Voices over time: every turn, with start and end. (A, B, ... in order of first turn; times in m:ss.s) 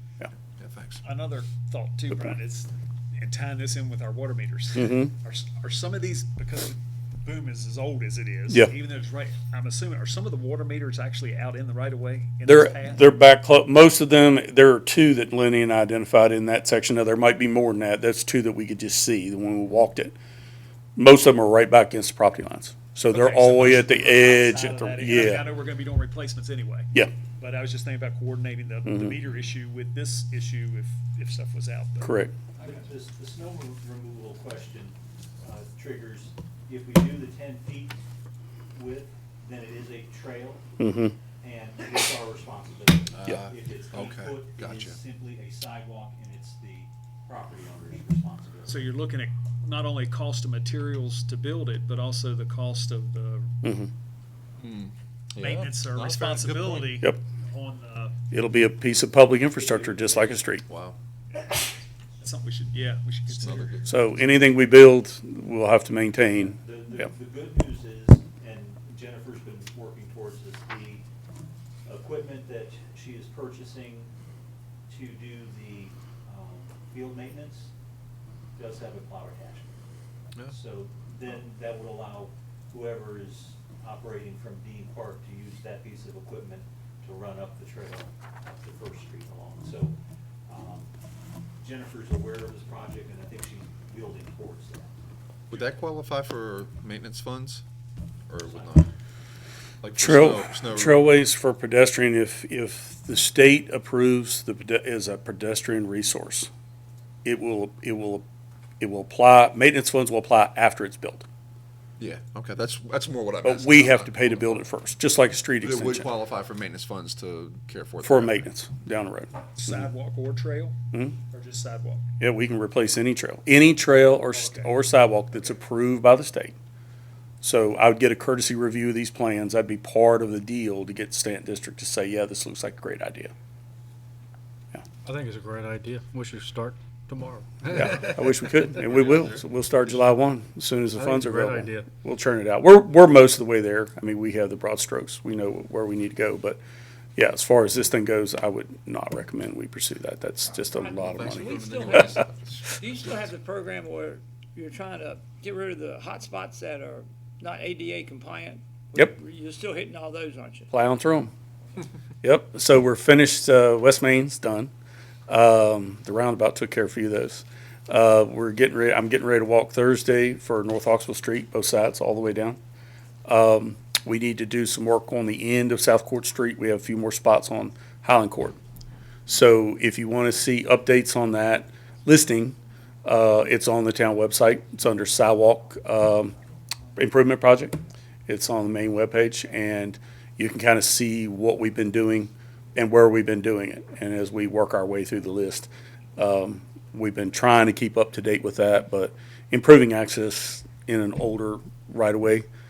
0:00.6-0:01.0 A
0:01.0-0:13.1 B
0:04.8-0:05.1 C
0:12.5-0:20.2 C
0:21.0-0:25.4 C
0:23.1-0:32.9 B
0:28.9-0:29.2 C
0:32.0-0:32.3 C
0:32.6-0:38.0 D
0:38.7-0:40.7 D
0:40.8-0:41.2 C
0:41.4-0:48.8 D
0:43.2-0:45.0 A
0:48.7-0:53.5 B
0:53.6-0:53.9 C
0:54.6-0:56.9 A
0:55.4-0:58.1 B
0:58.3-1:00.6 C
0:59.6-1:00.4 D
1:00.7-1:01.0 A
1:02.2-1:03.9 B
1:03.3-1:04.4 A
1:03.9-1:07.1 C
1:06.6-1:11.0 D
1:11.9-1:14.1 D
1:14.9-1:17.7 D
1:18.6-1:19.8 D
1:20.5-1:30.9 D
1:31.6-1:35.0 D
1:35.5-1:35.8 D
1:35.5-1:37.6 A
1:38.3-1:38.9 A
1:38.4-1:38.9 D
1:39.8-1:41.1 A
1:40.0-1:46.5 C
1:47.2-1:48.2 C
1:48.8-1:51.3 C
1:52.0-1:54.6 A
1:53.4-1:56.1 C
1:55.6-1:58.5 A
1:58.0-1:59.3 C
1:59.6-2:00.8 B
2:01.3-2:02.0 B
2:02.2-2:06.6 C
2:04.0-2:04.7 B
2:07.4-2:13.3 C
2:15.0-2:18.4 E
2:17.7-2:26.6 C
2:18.8-2:19.4 A
2:21.0-2:21.9 E
2:27.2-2:31.6 C
2:30.5-2:32.2 F
2:31.0-2:33.3 A
2:32.7-2:40.7 F
2:40.7-2:41.3 C
2:42.2-2:44.7 C
2:45.3-2:52.6 C
2:53.3-2:58.6 C
2:59.3-3:06.4 C
3:07.0-3:22.5 C